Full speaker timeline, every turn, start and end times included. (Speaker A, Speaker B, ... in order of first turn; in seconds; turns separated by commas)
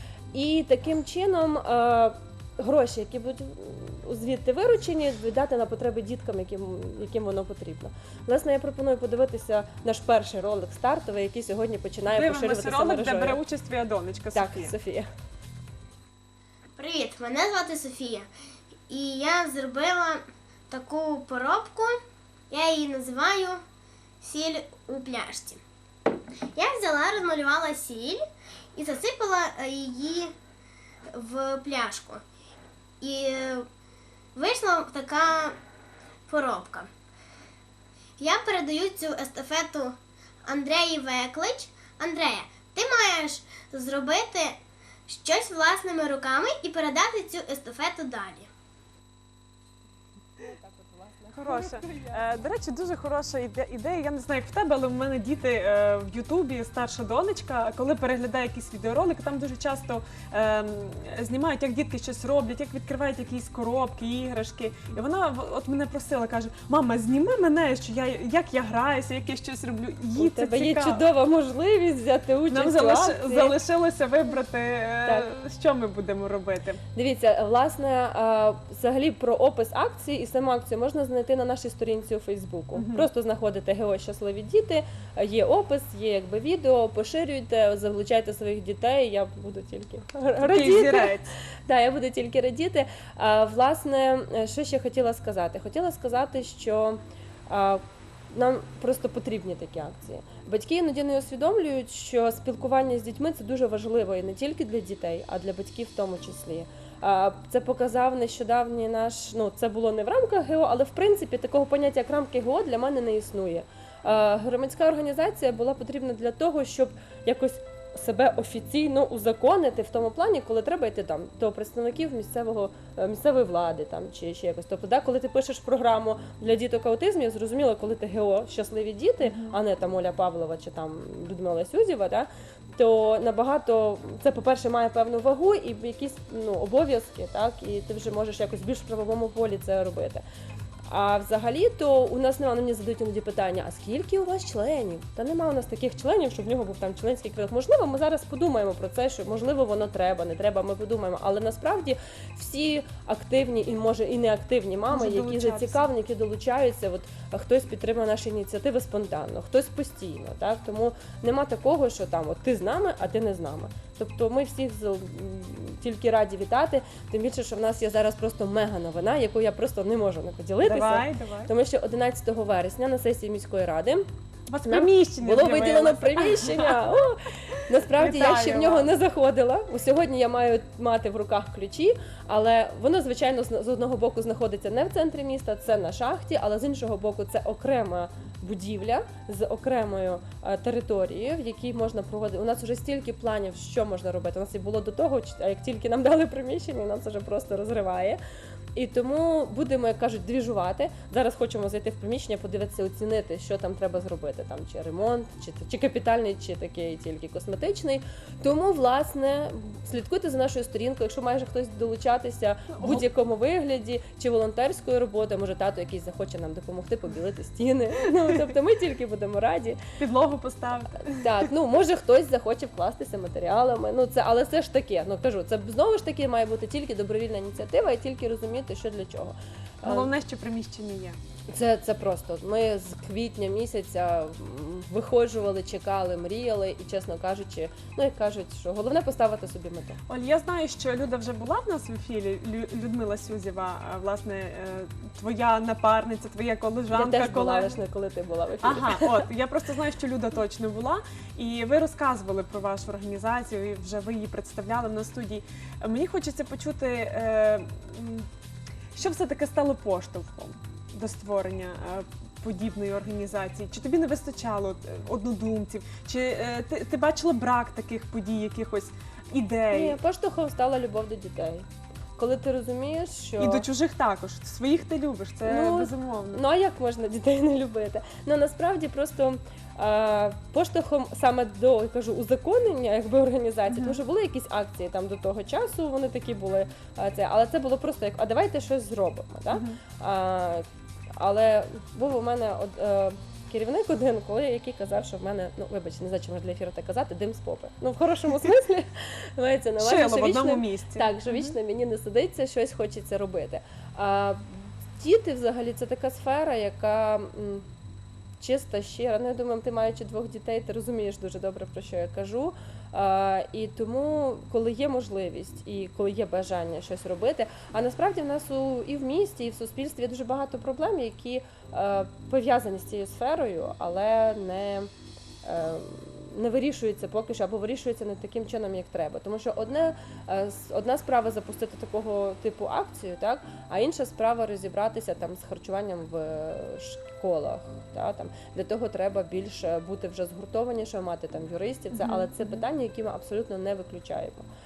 Speaker A: 0.3-13.4, Speaker B: 12.1-14.7, Speaker A: 14.3-15.1, Speaker C: 16.8-18.3, Speaker C: 18.9-23.6, Speaker C: 24.2-25.6, Speaker C: 26.5-28.2, Speaker C: 28.7-30.3, Speaker C: 31.1-32.2, Speaker C: 33.0-33.7, Speaker C: 34.3-35.6, Speaker C: 36.3-36.9, Speaker C: 38.2-48.5, Speaker A: 50.4-52.3, Speaker B: 51.3-71.0, Speaker A: 70.2-73.5, Speaker B: 72.5-76.8, Speaker A: 75.0-75.3, Speaker A: 76.9-140.2, Speaker B: 82.7-83.1, Speaker B: 90.4-91.3, Speaker B: 129.2-129.6, Speaker A: 140.9-174.0, Speaker B: 154.9-155.9, Speaker B: 170.6-171.5, Speaker B: 174.5-177.0, Speaker A: 174.6-198.2, Speaker B: 177.9-178.9, Speaker A: 198.7-219.8, Speaker B: 212.7-213.1, Speaker B: 220.0-221.5, Speaker A: 221.0-230.1, Speaker B: 229.8-231.2, Speaker A: 231.5-240.0, Speaker B: 240.1-247.8, Speaker A: 246.9-249.3, Speaker B: 248.6-258.3, Speaker B: 258.9-270.0, Speaker A: 269.7-273.6, Speaker B: 273.4-276.4, Speaker A: 275.4-307.7, Speaker B: 283.7-284.0, Speaker B: 289.5-289.8, Speaker B: 299.8-301.6, Speaker A: 308.4-324.9, Speaker A: 325.4-344.5, Speaker B: 341.9-342.6